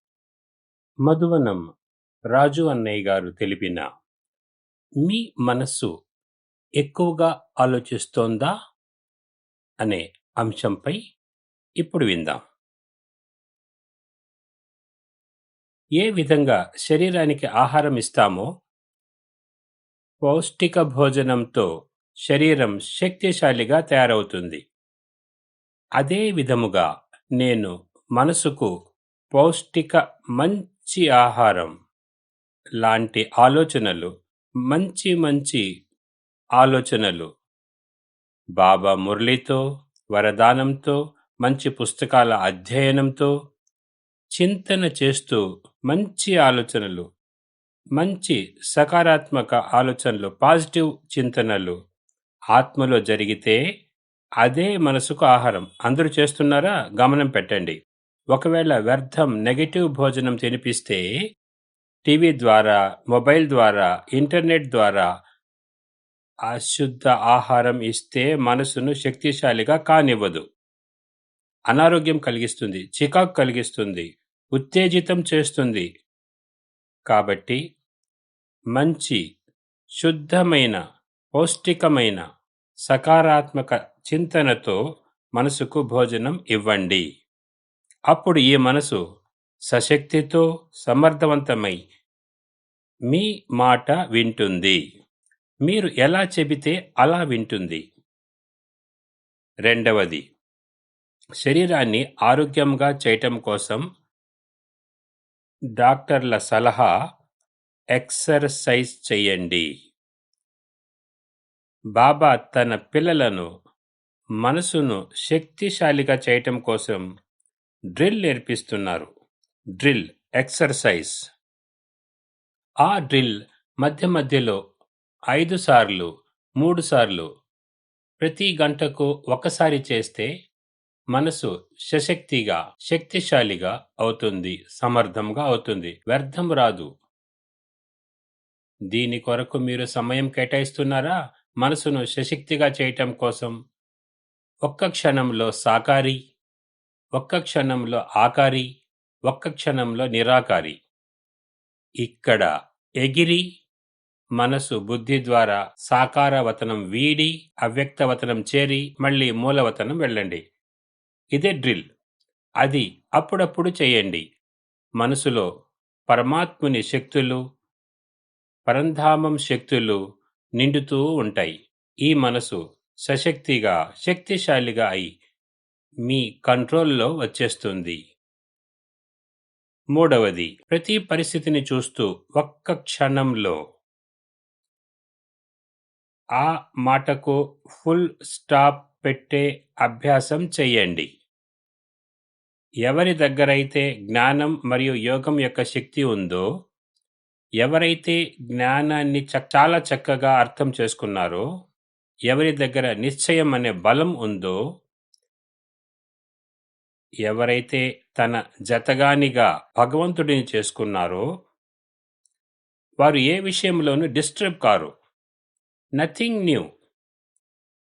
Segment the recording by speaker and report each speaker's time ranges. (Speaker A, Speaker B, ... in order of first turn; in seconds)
Speaker A: 1.1-1.6, 2.3-3.9, 5.0-5.9, 6.8-8.5, 9.8-11.0, 11.8-12.4, 16.0-18.4, 20.2-21.7, 22.3-24.6, 26.0-26.9, 27.4-28.7, 29.4-31.7, 32.8-34.1, 34.7-35.6, 36.6-37.3, 38.6-39.6, 40.1-43.3, 44.4-47.0, 48.0-51.7, 52.5-53.6, 54.4-57.7, 58.3-61.1, 62.0-65.1, 66.5-70.4, 71.7-75.9, 77.1-77.6, 78.7-79.2, 80.0-80.8, 81.4-82.2, 82.9-84.8, 85.4-87.0, 88.1-89.0, 89.7-91.8, 93.1-94.8, 95.7-97.8, 99.7-100.2, 101.4-103.8, 105.8-106.9, 108.0-109.7, 112.0-113.5, 114.4-117.0, 118.0-119.1, 119.8-121.1, 122.8-124.6, 125.3-126.1, 126.6-127.3, 128.2-130.3, 131.1-136.9, 138.9-143.5, 144.7-146.2, 147.2-148.7, 149.3-150.8, 152.0-152.5, 153.0-153.4, 154.4-160.4, 161.3-161.8, 162.6-164.2, 165.0-165.5, 166.1-167.4, 168.7-170.0, 170.6-175.1, 176.1-178.0, 179.9-183.6, 186.4-191.1, 192.8-196.4, 197.6-201.4, 202.3-204.6, 207.2-211.2, 213.0-214.9, 216.0-216.7